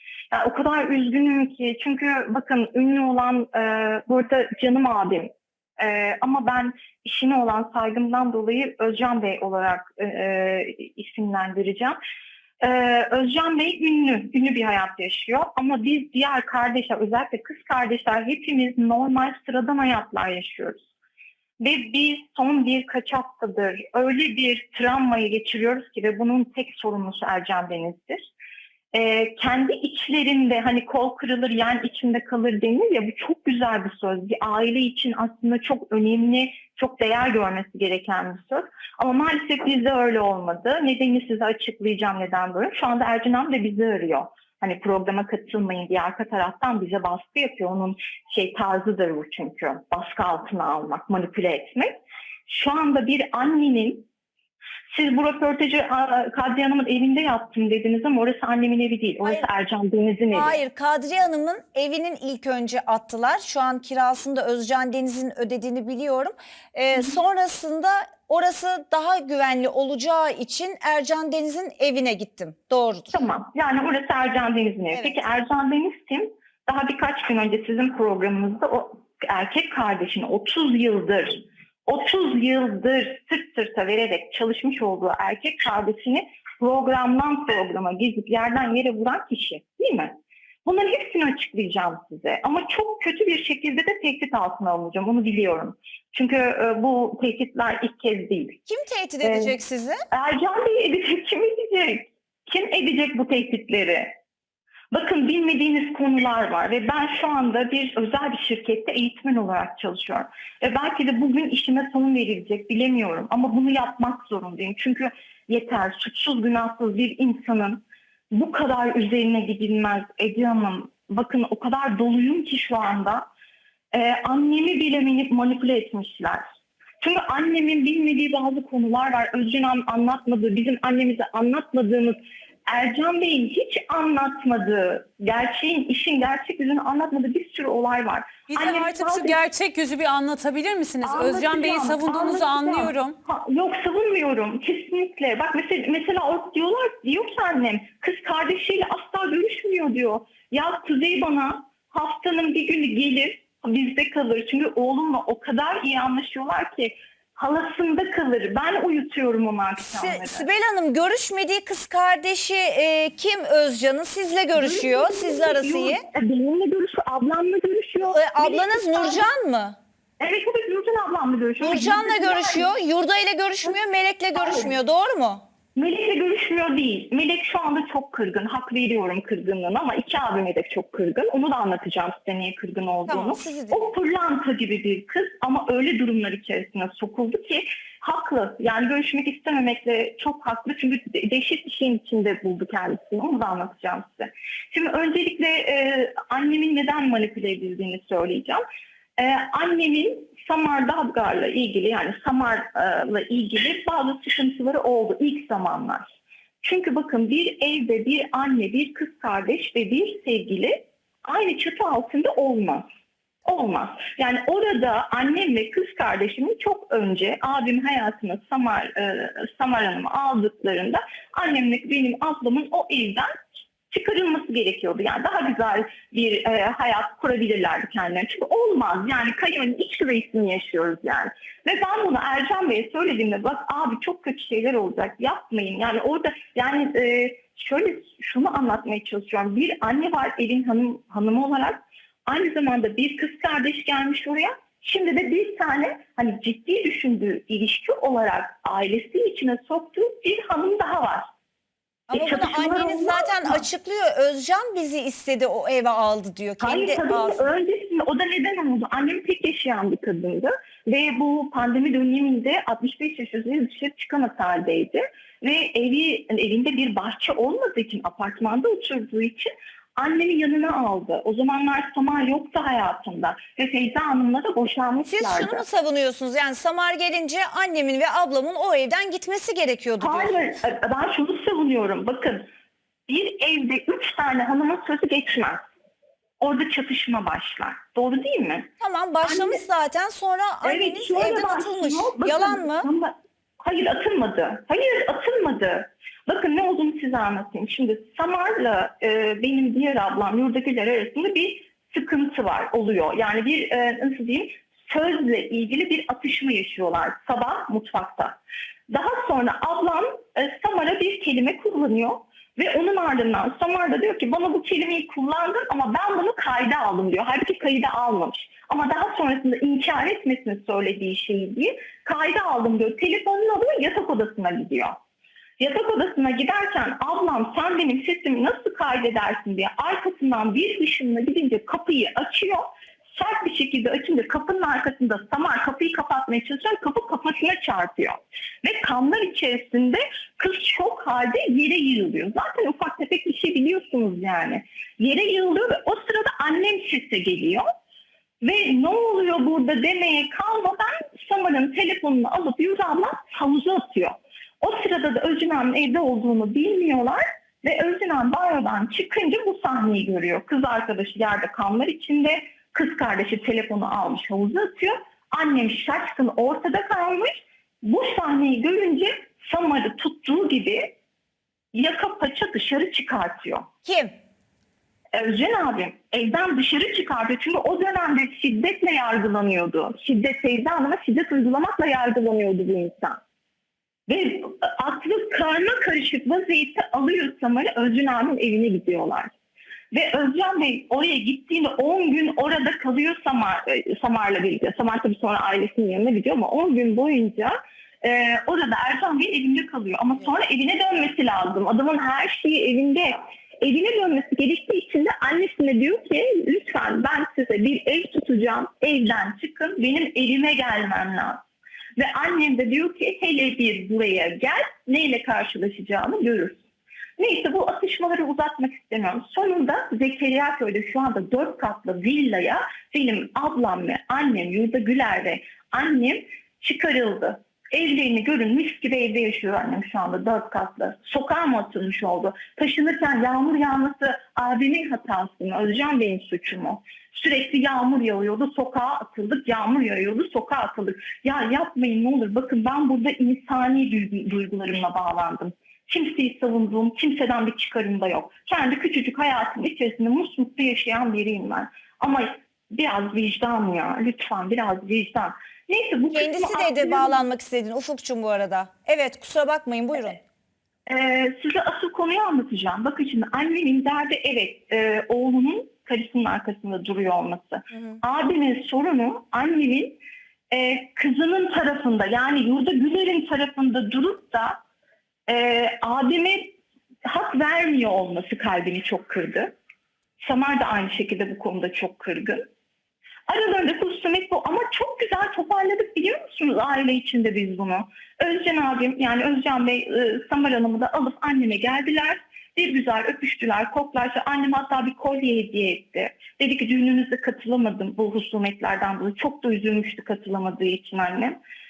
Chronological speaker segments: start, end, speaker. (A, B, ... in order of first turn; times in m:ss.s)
0:00.3-0:12.0 A
0:12.6-0:20.8 A
0:21.6-0:28.2 A
0:28.9-0:51.9 A
0:52.4-0:54.1 A
0:54.9-1:00.6 A
1:00.3-1:13.2 B
1:13.1-1:38.6 A
1:14.9-1:15.2 B
1:38.7-1:40.0 B
1:39.2-1:39.5 A
1:40.1-1:44.1 A
1:44.9-2:03.3 A
2:03.9-2:06.4 A
2:07.0-2:19.4 A
2:18.5-2:23.1 C
2:21.0-2:40.5 A
2:39.8-2:46.0 B
2:44.6-2:49.3 A
2:48.1-2:49.8 B
2:50.2-2:52.7 A
2:51.6-2:55.4 B
2:54.4-2:54.7 A
2:55.7-3:18.6 A
3:03.1-3:03.9 B
3:19.2-3:32.9 A
3:33.4-3:43.3 A
3:43.9-4:11.3 A
4:12.1-4:17.5 B
4:12.1-4:13.6 A
4:16.6-4:35.6 A
4:35.0-4:40.4 B
4:40.0-4:42.5 A
4:43.1-4:45.6 A
4:46.4-4:48.7 A
4:48.8-4:52.9 B
4:49.2-4:49.6 A
4:50.6-5:08.4 A
5:08.9-5:25.0 A
5:25.6-5:47.6 A
5:48.4-6:10.9 A
6:11.7-6:13.7 A
6:13.8-6:14.1 B
6:15.1-6:23.2 A
6:24.1-6:29.3 A
6:29.9-6:51.4 A
6:52.0-6:56.6 A
6:57.2-7:37.2 A
7:36.1-7:40.2 B
7:40.9-7:50.0 A
7:50.5-7:54.6 A
7:55.3-7:59.5 A
8:00.2-8:02.5 A
8:03.3-8:21.4 A